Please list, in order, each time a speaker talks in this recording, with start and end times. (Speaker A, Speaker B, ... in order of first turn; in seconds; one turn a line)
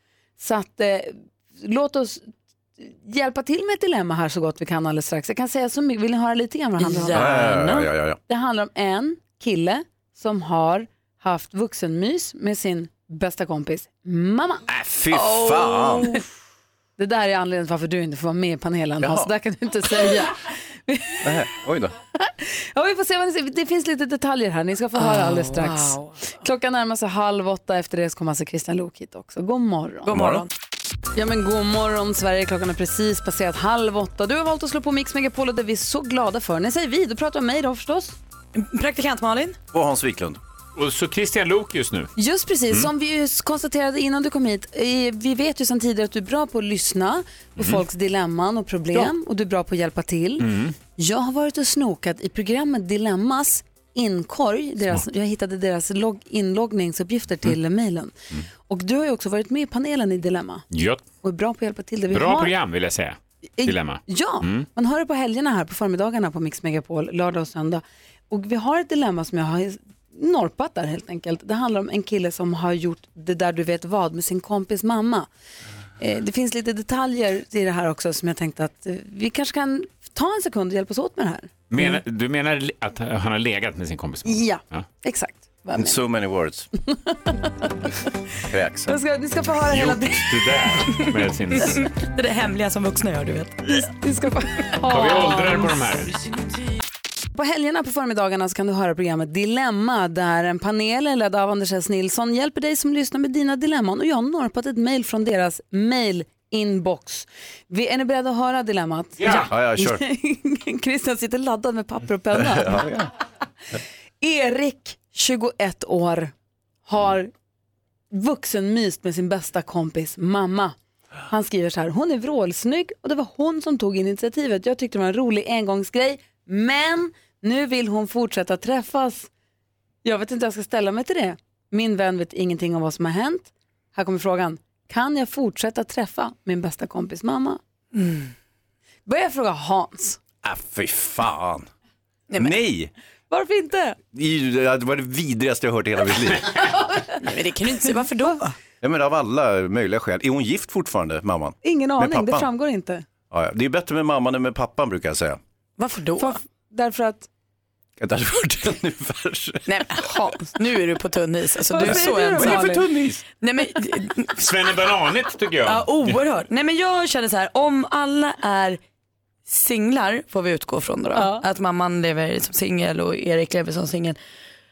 Speaker A: 0.4-7.4
Speaker B: 6.8-7.9
Speaker C: 7.1-8.2
Speaker A: 8.3-14.6
Speaker C: 14.7-16.2
Speaker B: 15.1-16.2
Speaker A: 17.0-21.3
Speaker C: 19.0-19.3
Speaker C: 21.2-21.9
Speaker A: 22.2-30.1
Speaker B: 24.9-26.2
Speaker B: 30.1-30.5
Speaker C: 30.1-30.4
Speaker A: 31.1-38.2
Speaker B: 38.5-39.6
Speaker C: 39.7-40.4
Speaker D: 40.8-42.1
Speaker A: 42.1-60.6
Speaker D: 50.4-50.8
Speaker D: 60.7-61.0
Speaker A: 61.2-62.5
Speaker D: 62.1-64.7
Speaker A: 63.6-75.3
Speaker A: 76.0-82.0
Speaker D: 81.7-84.8
Speaker A: 84.2-86.0
Speaker C: 85.7-86.7
Speaker A: 86.9-87.9
Speaker C: 88.5-89.0
Speaker A: 88.9-90.9
Speaker D: 89.7-91.9
Speaker B: 91.7-93.9
Speaker A: 93.9-95.7
Speaker D: 94.8-96.1
Speaker A: 97.3-112.9
Speaker D: 109.2-109.5
Speaker C: 109.2-110.0
Speaker C: 112.4-113.1
Speaker A: 114.2-116.3
Speaker A: 116.8-117.3
Speaker A: 118.1-120.7
Speaker A: 121.3-129.3
Speaker A: 130.0-137.6
Speaker B: 137.9-138.3
Speaker A: 139.1-140.2
Speaker C: 140.4-141.7
Speaker C: 142.4-142.9
Speaker A: 143.3-144.0
Speaker C: 144.1-146.6
Speaker B: 147.2-148.5
Speaker C: 148.8-152.5
Speaker A: 151.6-153.0
Speaker C: 153.3-155.4
Speaker B: 155.8-156.3
Speaker A: 156.2-157.3
Speaker C: 158.0-160.1
Speaker B: 159.7-164.5
Speaker A: 161.7-162.9
Speaker C: 161.8-163.2
Speaker D: 164.3-166.2
Speaker B: 165.6-168.8
Speaker B: 169.5-174.2
Speaker A: 171.2-171.4